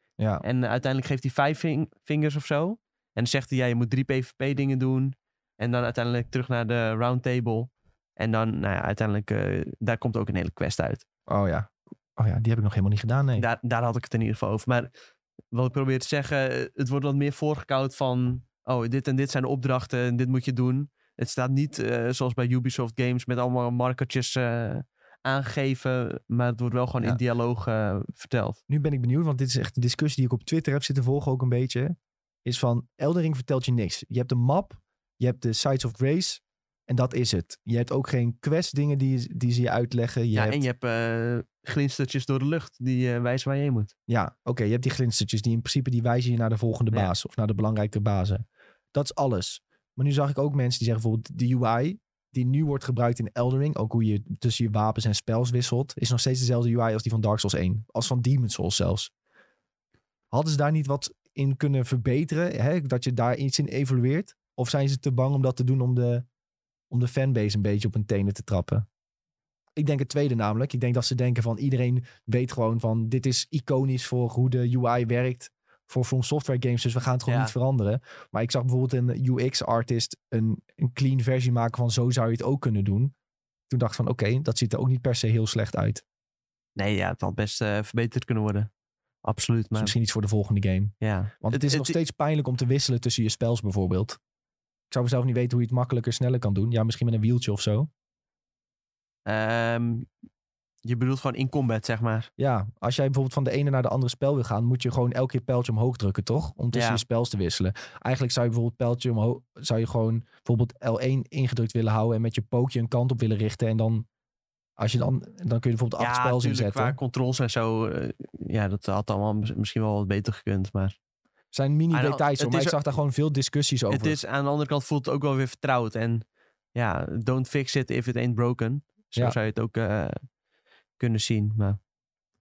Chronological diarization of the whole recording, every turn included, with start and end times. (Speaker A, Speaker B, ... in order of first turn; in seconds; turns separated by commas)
Speaker A: 0.2-0.4, Speaker B: 0.4-11.0, Speaker A: 11.3-13.5, Speaker B: 13.4-14.9, Speaker B: 15.5-28.6, Speaker A: 28.7-40.6, Speaker B: 40.3-43.9, Speaker A: 44.1-59.1, Speaker A: 60.3-66.3, Speaker A: 66.9-68.9, Speaker A: 69.8-83.1, Speaker B: 77.3-77.5, Speaker A: 83.7-86.0, Speaker B: 86.8-88.7, Speaker B: 89.2-89.9, Speaker A: 89.8-94.2, Speaker B: 91.0-92.0, Speaker A: 94.9-97.9, Speaker B: 99.3-100.1, Speaker B: 100.8-102.3, Speaker A: 102.4-114.1, Speaker B: 106.7-107.0, Speaker A: 114.8-117.0, Speaker B: 116.0-121.0, Speaker A: 121.5-124.2, Speaker B: 121.9-122.8, Speaker B: 123.9-130.2, Speaker B: 131.0-131.8